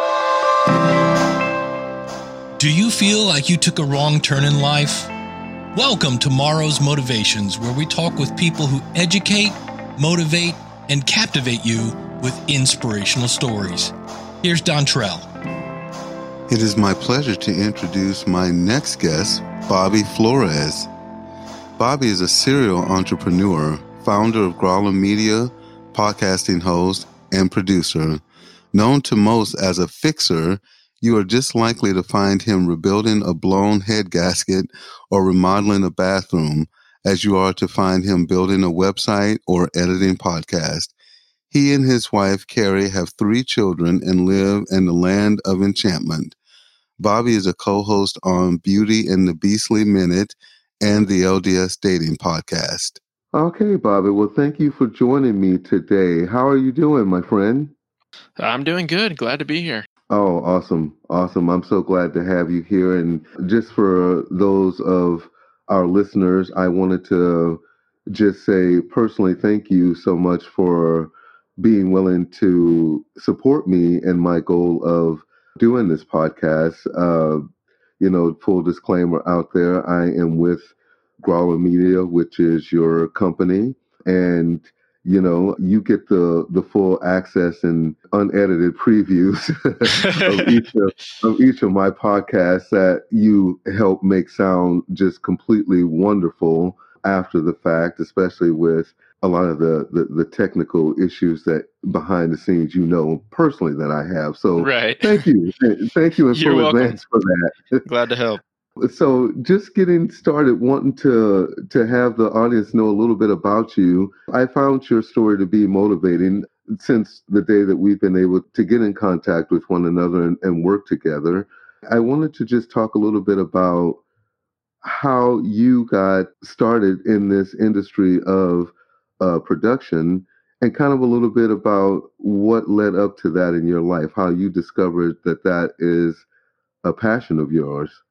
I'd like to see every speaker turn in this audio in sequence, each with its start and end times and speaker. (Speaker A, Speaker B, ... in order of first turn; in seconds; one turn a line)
Speaker A: 2.6-5.1
Speaker A: 5.7-15.3
Speaker B: 16.5-20.9
Speaker B: 21.8-40.9
Speaker B: 41.5-46.4
Speaker B: 47.0-57.7
Speaker C: 58.4-59.9
Speaker B: 60.1-77.4
Speaker B: 78.0-107.8
Speaker C: 89.9-90.6
Speaker C: 104.6-105.3
Speaker C: 106.3-107.0
Speaker C: 107.8-108.4
Speaker B: 108.8-124.0
Speaker B: 124.8-136.2
Speaker B: 136.8-138.0